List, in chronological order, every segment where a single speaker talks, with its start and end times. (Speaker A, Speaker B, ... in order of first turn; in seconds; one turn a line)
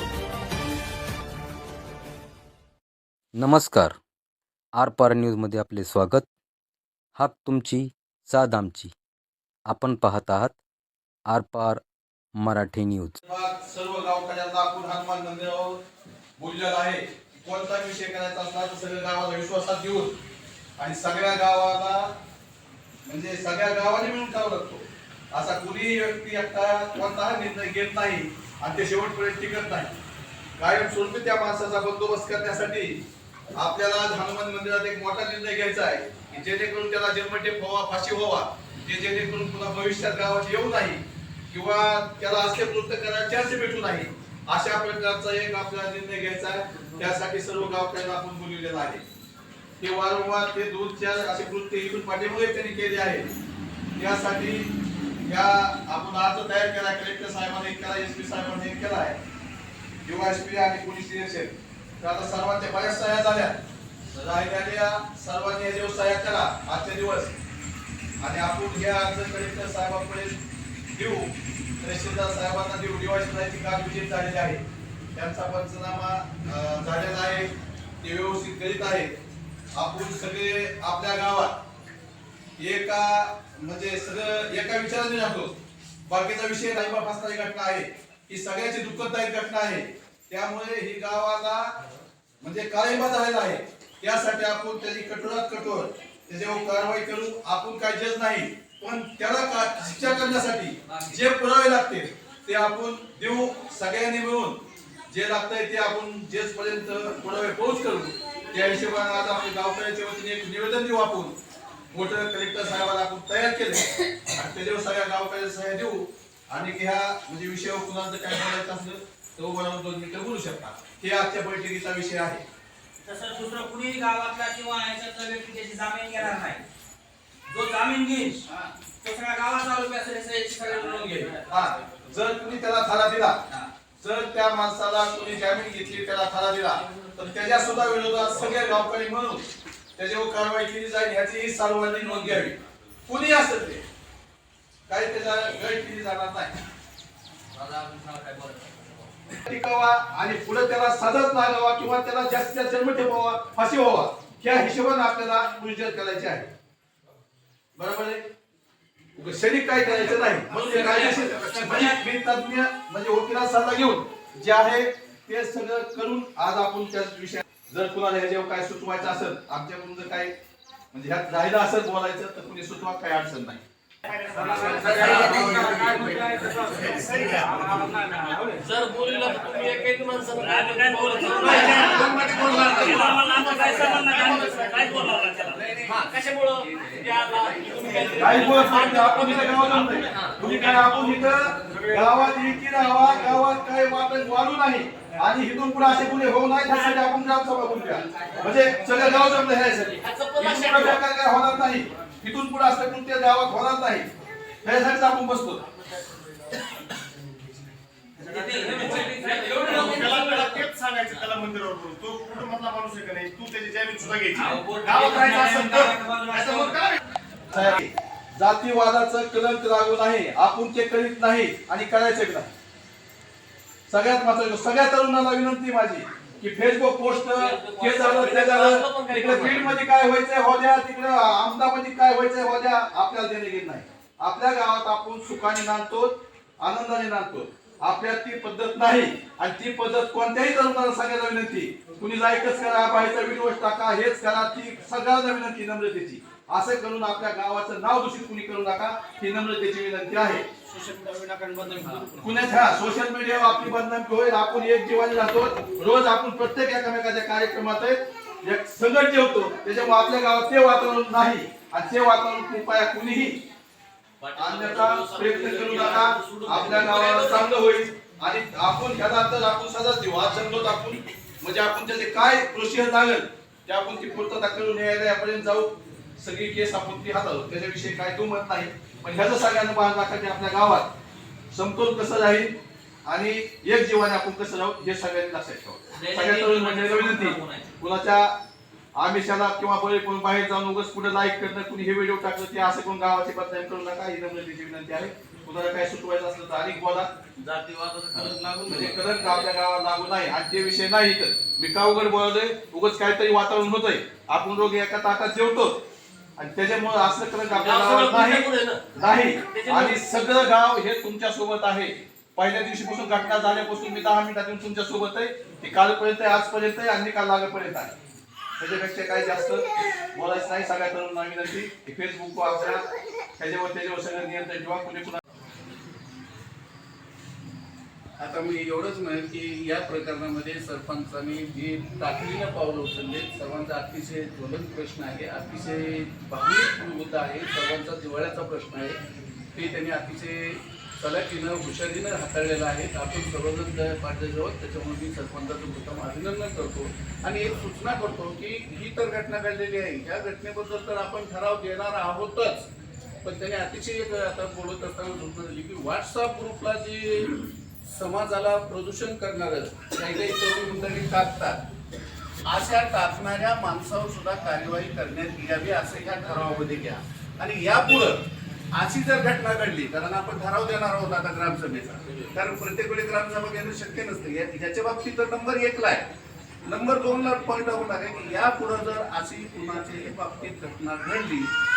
Speaker A: 3.3-4.0
Speaker A: 4.7-6.3
Speaker A: 7.2-8.9
Speaker A: 9.7-10.6
Speaker A: 11.3-11.8
Speaker A: 12.3-13.2
Speaker B: 13.2-15.8
Speaker B: 16.4-20.1
Speaker B: 20.8-22.1
Speaker B: 23.0-29.9
Speaker B: 30.6-33.0
Speaker B: 33.5-49.0
Speaker B: 49.8-53.3
Speaker B: 54.0-54.7
Speaker B: 55.3-59.2
Speaker B: 60.0-63.6
Speaker B: 64.1-67.3
Speaker B: 68.2-70.4
Speaker B: 70.9-74.6
Speaker B: 75.1-79.1
Speaker B: 79.7-81.6
Speaker B: 82.6-91.7
Speaker B: 92.4-111.3
Speaker C: 100.9-101.2
Speaker B: 111.9-122.4
Speaker C: 123.0-126.6
Speaker C: 127.5-131.5
Speaker B: 131.5-133.4
Speaker B: 134.0-139.4
Speaker B: 140.0-143.8
Speaker B: 144.9-146.6
Speaker C: 147.6-148.9
Speaker B: 149.4-156.5
Speaker B: 157.8-158.3
Speaker B: 159.2-170.3
Speaker C: 160.3-162.0
Speaker D: 160.5-161.6
Speaker B: 170.9-173.6
Speaker E: 174.2-175.5
Speaker C: 174.4-178.6
Speaker D: 174.5-176.3
Speaker B: 174.8-175.7
Speaker E: 176.9-177.4
Speaker F: 178.6-182.1
Speaker C: 180.4-185.7
Speaker D: 181.6-183.2
Speaker F: 183.0-184.5
Speaker E: 183.3-185.2
Speaker F: 185.8-191.1
Speaker B: 188.1-204.1
Speaker C: 188.5-189.9
Speaker F: 191.7-192.0
Speaker C: 198.1-199.5
Speaker F: 200.0-201.0
Speaker B: 204.6-205.6
Speaker C: 208.2-210.7
Speaker E: 208.2-217.0
Speaker F: 208.7-209.8
Speaker C: 214.3-216.8
Speaker B: 217.5-222.5
Speaker B: 223.9-250.4
Speaker F: 227.3-229.8
Speaker C: 250.7-252.3
Speaker B: 252.2-263.4
Speaker F: 264.2-267.5
Speaker B: 264.4-280.9
Speaker B: 281.5-288.4
Speaker C: 286.0-287.6
Speaker B: 288.9-297.1
Speaker F: 297.4-299.4
Speaker B: 298.3-305.8
Speaker B: 306.4-317.9
Speaker F: 307.5-308.8
Speaker F: 309.5-310.0
Speaker B: 318.6-322.9
Speaker B: 323.4-325.2
Speaker D: 328.2-339.0
Speaker D: 339.5-352.7
Speaker D: 353.2-361.6
Speaker D: 362.5-368.2
Speaker D: 368.7-376.0
Speaker D: 376.6-381.5